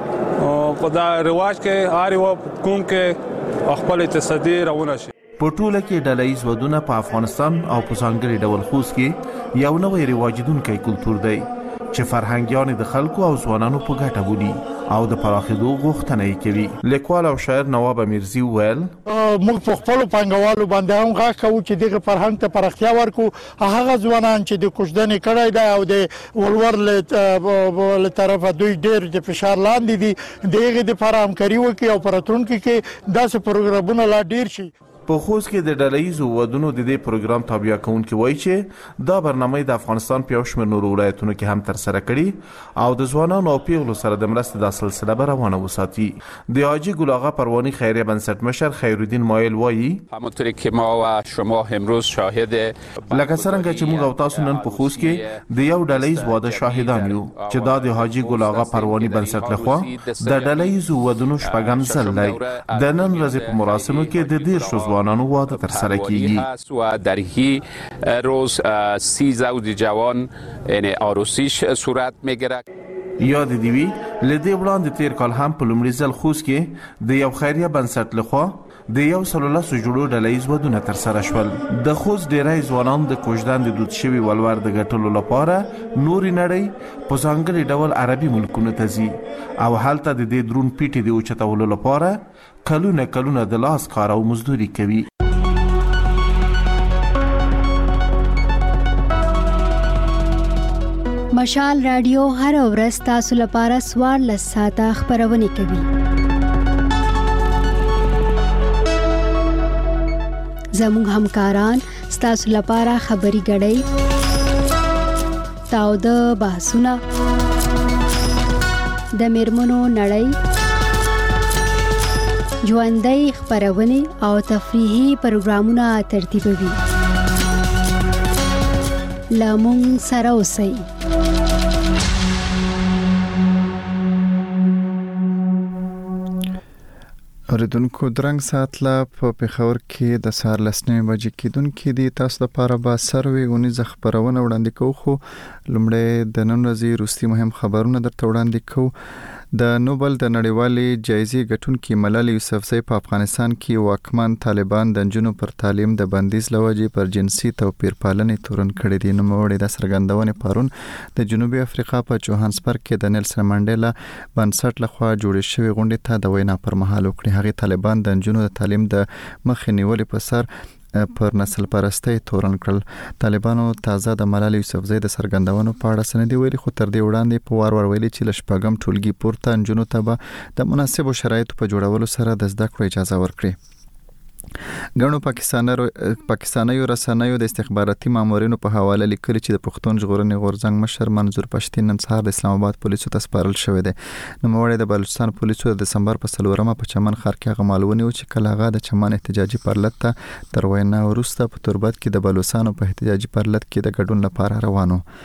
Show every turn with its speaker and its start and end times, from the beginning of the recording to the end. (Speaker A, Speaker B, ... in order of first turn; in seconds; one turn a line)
Speaker A: 0.4-3.2
Speaker A: 3.7-5.1
Speaker B: 5.4-18.9
Speaker C: 19.1-34.7
Speaker B: 35.1-50.0
Speaker D: 50.1-60.8
Speaker B: 53.1-66.5
Speaker D: 61.4-72.6
Speaker B: 73.2-95.1
Speaker E: 101.4-105.9
Speaker E: 110.8-113.8
Speaker E: 115.7-117.0
Speaker E: 119.2-120.3
Speaker E: 122.7-126.8
Speaker E: 129.4-130.8
Speaker F: 137.5-148.9
Speaker F: 149.5-170.5
Speaker F: 171.0-183.6
Speaker F: 185.0-205.0